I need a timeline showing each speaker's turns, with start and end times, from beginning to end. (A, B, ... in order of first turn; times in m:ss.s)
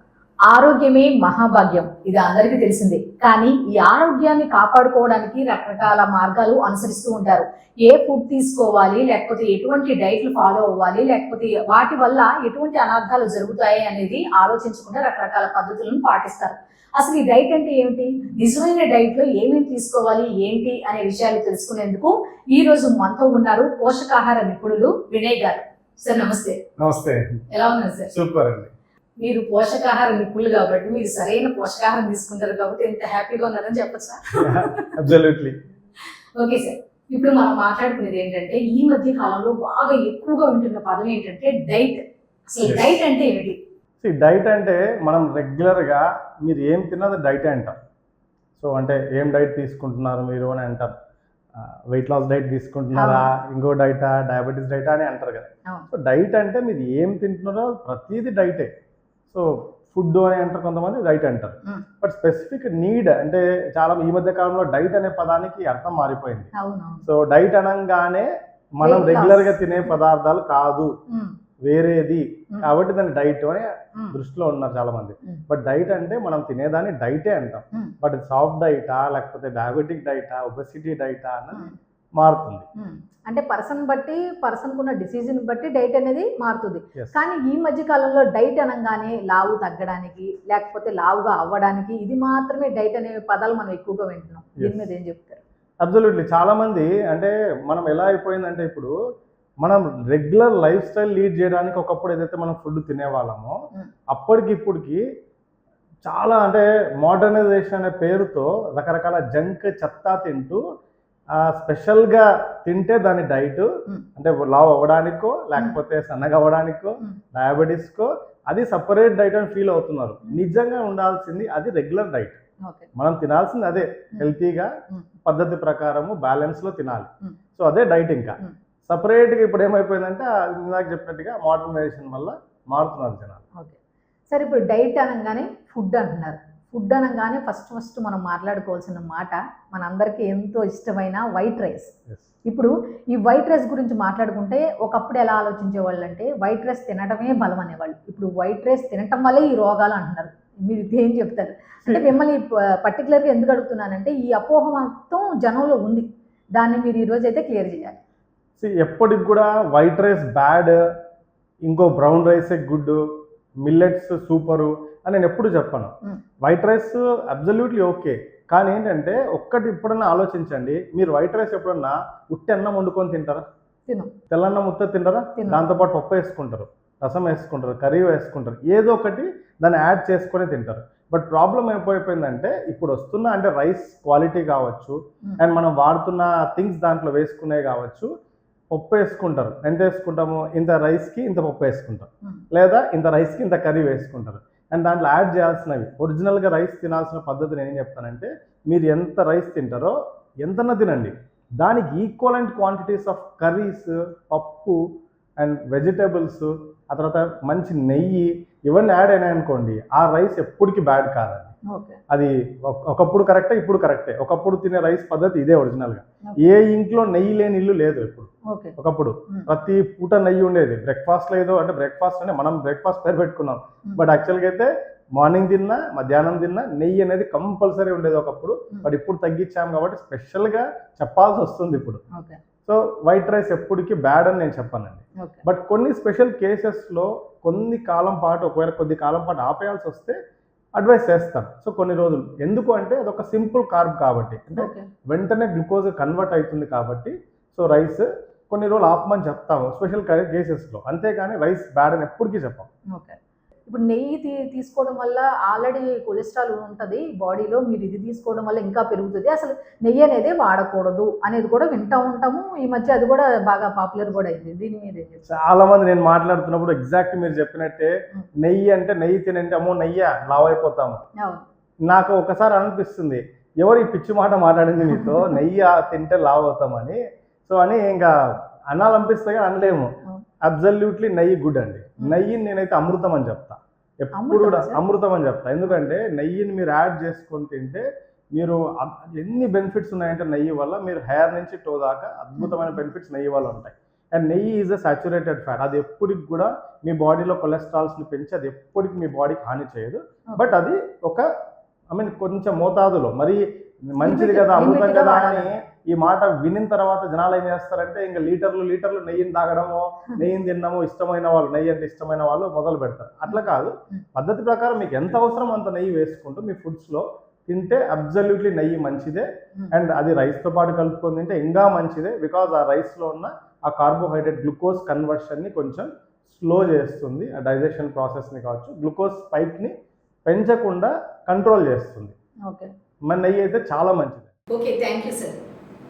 0:00.5-0:26.6 A
0:26.8-0:27.4 B
0:27.5-0:28.1 A
0:28.1-0:28.7 B
0:29.2-0:35.0 A
0:34.4-0:35.6 B
0:36.4-0:43.6 A
0:42.6-0:42.9 B
0:44.0-0:47.7 B
0:48.6-0:50.9 B
0:51.6-0:58.7 B
0:53.0-0:53.3 A
0:59.3-1:06.5 B
1:06.6-1:07.0 A
1:07.0-1:10.9 B
1:08.8-1:09.9 A
1:11.1-1:11.3 A
1:11.6-1:22.6 B
1:22.8-1:35.4 A
1:34.6-1:34.8 B
1:35.8-1:38.9 B
1:39.6-1:43.6 B
1:44.1-1:45.0 B
1:46.1-1:50.6 B
1:51.4-2:02.4 B
1:55.6-1:55.8 A
2:02.6-2:02.9 A
2:03.0-2:04.7 B
2:05.2-2:13.4 B
2:14.3-2:21.9 A
2:22.5-2:38.0 A
2:31.8-2:32.1 B
2:38.6-2:40.8 B
2:41.7-2:43.0 B
2:43.6-2:53.4 B
2:53.9-2:54.1 A
2:54.3-3:08.1 B
2:55.4-2:55.8 A
3:08.7-3:24.8 B
3:25.4-3:31.5 B
3:31.7-3:32.0 A
3:32.1-3:52.0 B
3:38.5-3:38.8 A
3:52.1-3:52.4 A
3:52.7-4:00.2 B
3:55.2-3:55.4 A
4:00.8-4:12.7 B
4:04.6-4:04.9 A
4:12.9-4:25.3 A
4:25.3-4:31.0 B
4:31.2-4:31.4 A
4:31.9-4:38.1 B
4:35.0-4:35.3 A
4:38.7-4:39.9 B
4:40.4-4:43.6 B
4:44.1-4:44.8 A
4:44.2-5:01.2 B
4:45.7-4:46.0 A
4:52.4-4:52.8 A
5:01.9-5:29.7 B
5:04.0-5:05.5 A
5:13.3-5:14.0 A
5:30.3-5:32.1 B
5:33.1-5:34.3 B
5:34.5-5:35.4 A